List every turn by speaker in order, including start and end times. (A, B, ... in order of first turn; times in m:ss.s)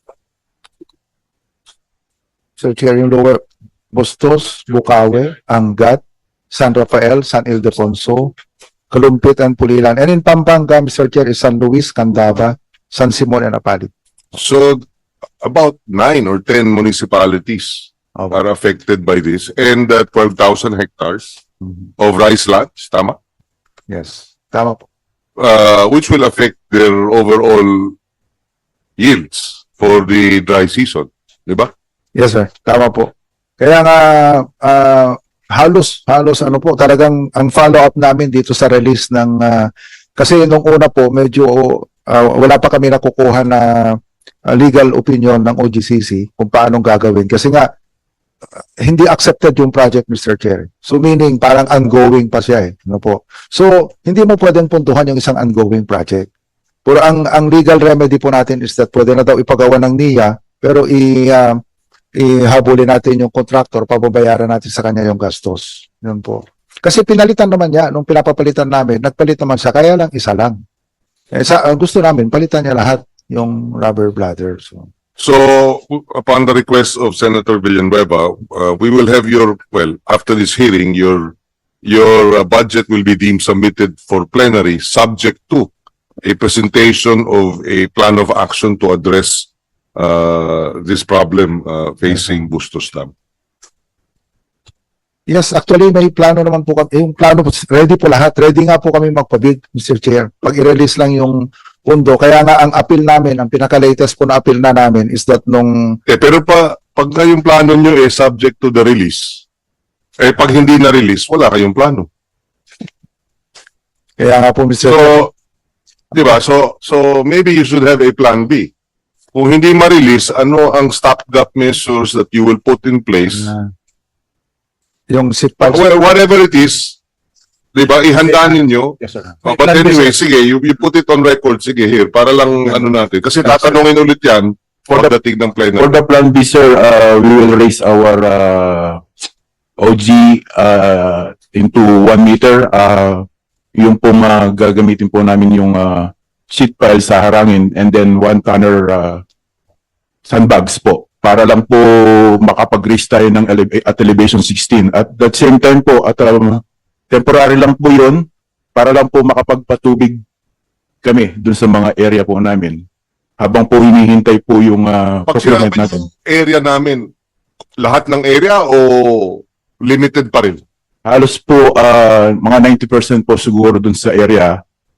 0:02.6-0:08.3 A
0:08.9-0:13.9 A
0:14.4-0:14.8 B
0:15.4-0:21.4 B
0:22.0-0:23.2 B
0:23.9-0:24.8 A
0:25.4-0:28.0 B
0:29.0-0:31.7 B
0:32.2-0:47.7 A
0:48.8-0:56.3 A
0:56.8-1:01.6 A
1:02.2-1:10.6 A
1:11.3-1:14.9 A
1:15.2-1:25.7 B
1:26.2-1:33.1 B
1:32.1-1:32.4 A
1:35.3-1:46.0 A
1:46.1-1:49.4 B
1:50.2-1:52.1 B
1:54.2-1:55.3 A
1:54.8-1:55.3 B
1:56.1-1:58.7 B
1:59.3-2:03.5 B
2:03.4-2:03.7 A
2:05.1-2:05.8 A
2:05.6-2:07.0 B
2:07.7-2:16.0 B
2:15.7-2:19.0 C
2:19.8-2:29.2 C
2:30.3-2:40.2 C
2:41.0-2:42.8 C
2:43.4-2:46.0 C
2:45.3-2:47.1 B
2:47.8-2:50.6 B
2:51.0-2:54.6 C